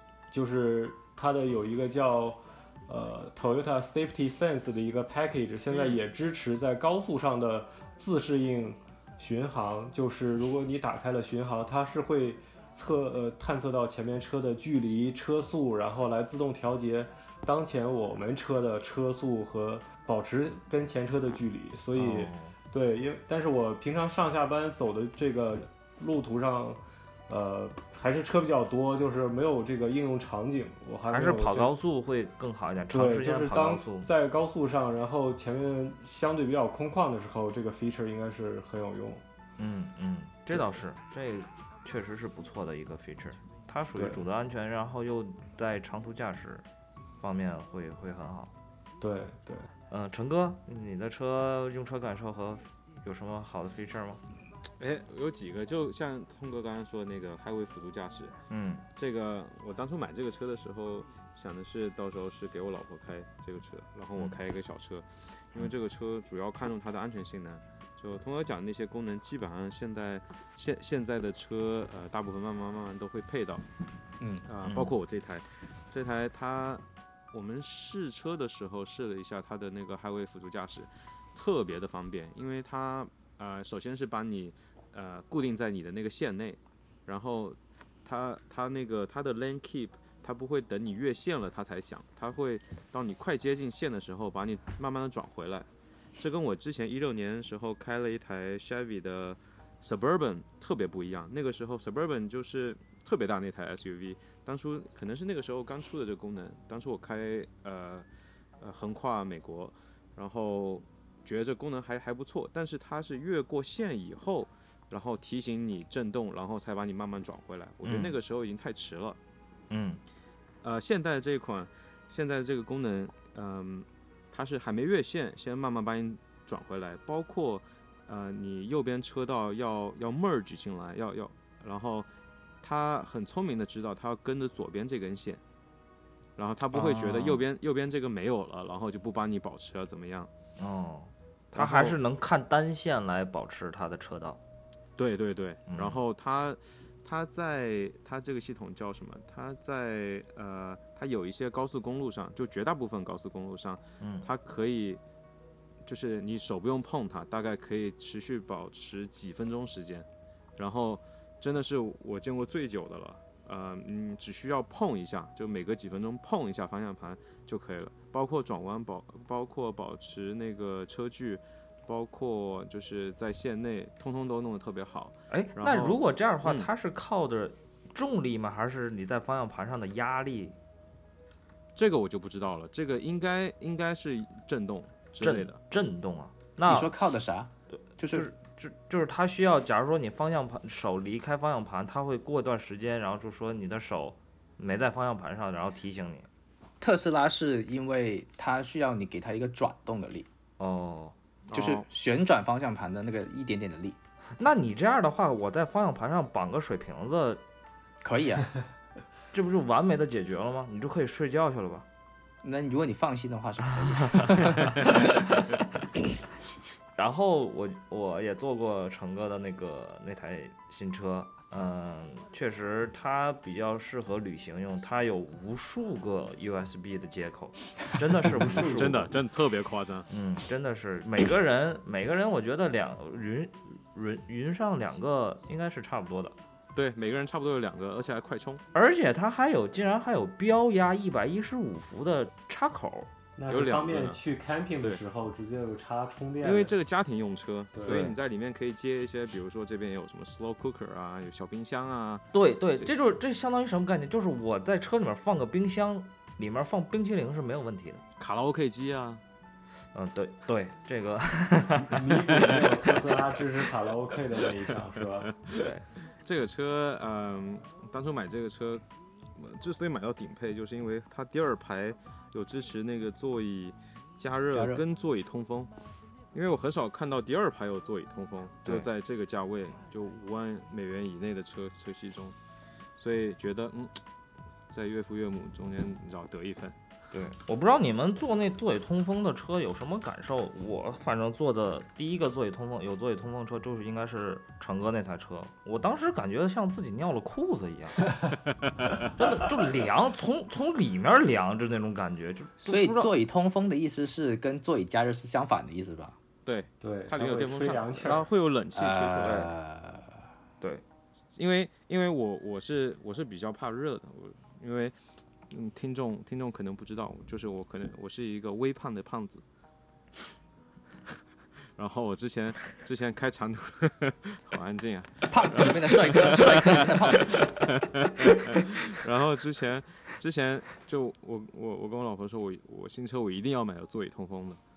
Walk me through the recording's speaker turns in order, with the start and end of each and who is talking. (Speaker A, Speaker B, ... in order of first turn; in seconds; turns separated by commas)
Speaker A: 0.3-31.7, Speaker B: 5.7-6.0, Speaker C: 21.9-22.5, Speaker C: 31.1-34.1, Speaker A: 32.9-39.2, Speaker C: 39.6-46.6, Speaker A: 44.0-44.2, Speaker C: 47.2-48.5, Speaker A: 49.0-49.7, Speaker C: 49.9-54.2, Speaker B: 54.8-58.4, Speaker C: 58.5-58.9, Speaker B: 59.0-73.6, Speaker D: 74.2-74.5, Speaker B: 74.5-108.1, Speaker C: 74.6-75.0, Speaker B: 108.6-119.2, Speaker C: 117.8-118.2, Speaker C: 119.7-120.0, Speaker B: 120.6-132.1, Speaker B: 132.6-135.4, Speaker B: 136.4-140.3, Speaker C: 136.7-137.4, Speaker C: 140.6-144.4, Speaker B: 141.5-142.0, Speaker B: 145.0-155.0, Speaker C: 145.7-146.0, Speaker C: 154.0-154.3, Speaker B: 155.8-176.7, Speaker C: 175.3-180.6, Speaker B: 181.8-185.6, Speaker C: 185.2-186.9, Speaker D: 186.7-188.3, Speaker C: 187.7-196.3, Speaker D: 196.8-200.3, Speaker C: 200.6-201.2, Speaker B: 201.5-201.9, Speaker D: 201.5-204.0, Speaker C: 204.4-207.4, Speaker D: 208.0-208.5, Speaker C: 209.3-211.9, Speaker D: 212.4-215.3, Speaker C: 214.2-215.0, Speaker C: 217.0-229.1, Speaker B: 228.4-230.1, Speaker C: 230.1-236.4, Speaker B: 236.8-238.6, Speaker C: 238.7-243.1, Speaker A: 243.4-246.8, Speaker B: 243.5-244.2, Speaker B: 246.4-252.3, Speaker A: 247.7-248.1, Speaker C: 252.3-258.0, Speaker B: 258.2-259.2, Speaker C: 259.9-262.3, Speaker A: 261.8-265.3, Speaker B: 265.3-265.7, Speaker C: 265.5-265.8, Speaker B: 266.2-275.7, Speaker D: 274.5-274.8, Speaker B: 276.3-282.4, Speaker B: 283.0-284.0, Speaker B: 284.7-286.8, Speaker C: 287.1-298.1, Speaker B: 298.6-299.1, Speaker C: 299.2-303.1, Speaker D: 302.6-306.2, Speaker B: 306.5-309.5, Speaker A: 306.8-308.3, Speaker D: 308.8-310.1, Speaker B: 311.4-314.9, Speaker B: 315.5-319.4, Speaker B: 321.8-334.6, Speaker D: 325.3-327.6